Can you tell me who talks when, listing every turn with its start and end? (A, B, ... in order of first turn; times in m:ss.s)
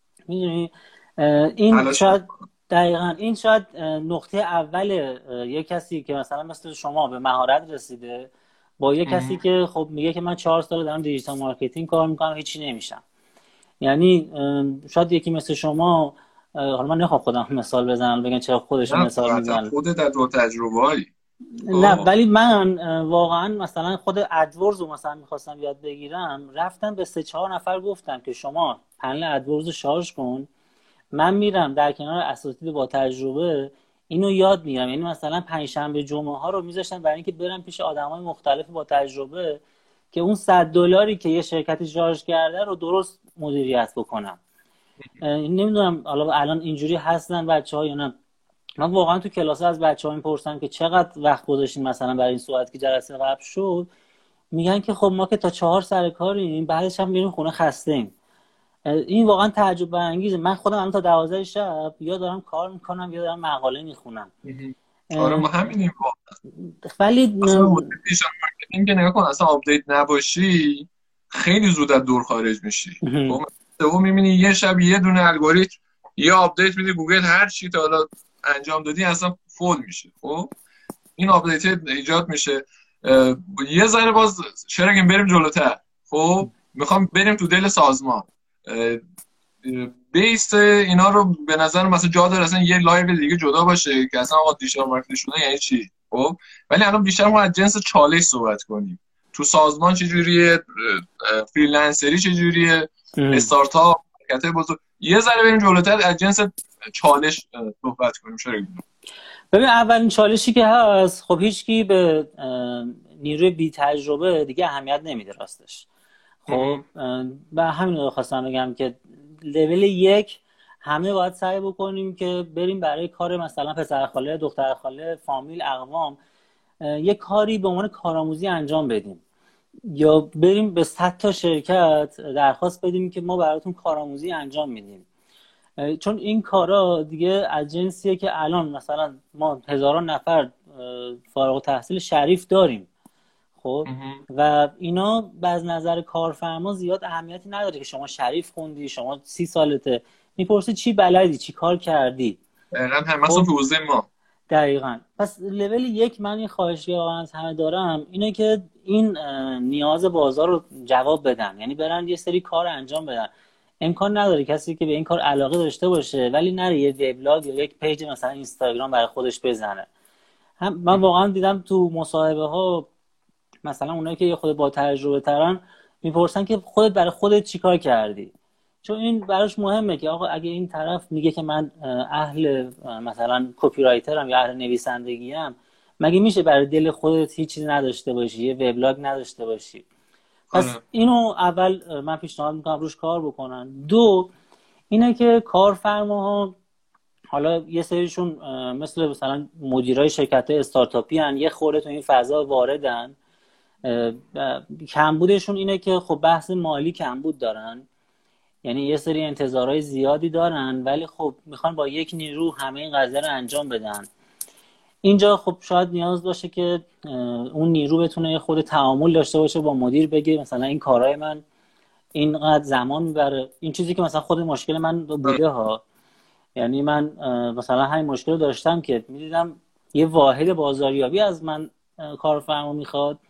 0:00.3-0:08.3 A
0:01.7-0:02.3 B
0:08.8-0:13.0 A
0:09.1-0:09.4 B
0:13.8-0:19.7 A
0:18.9-0:21.1 B
0:21.7-0:30.5 A
0:21.7-0:22.1 B
0:31.2-0:39.6 A
0:40.1-0:44.4 A
0:45.2-0:48.1 A
0:48.8-0:53.9 A
0:54.5-0:58.1 A
0:58.9-1:04.3 A
1:04.4-1:06.2 B
1:05.1-1:05.6 A
1:06.6-1:08.0 A
1:07.4-1:20.5 B
1:13.0-1:13.4 A
1:21.2-1:29.0 B
1:29.6-1:48.8 B
1:43.2-1:43.5 A
1:49.5-1:55.9 A
1:56.5-1:56.8 B
1:56.5-2:06.2 A
2:06.8-2:09.2 A
2:09.9-2:15.0 A
2:15.8-2:22.9 A
2:23.6-2:32.4 A
2:23.9-2:24.2 B
2:32.7-2:34.1 B
2:34.5-2:43.3 A
2:43.8-2:49.9 A
2:50.6-2:52.9 A
2:53.6-2:58.3 A
2:58.8-3:09.8 A
3:10.5-3:10.8 B
3:10.5-3:14.3 A
3:14.9-3:16.6 A
3:17.3-3:23.2 A
3:23.8-3:27.8 A
3:28.6-3:34.1 A
3:35.0-3:41.4 A
3:42.2-3:45.8 A
3:46.6-3:53.2 A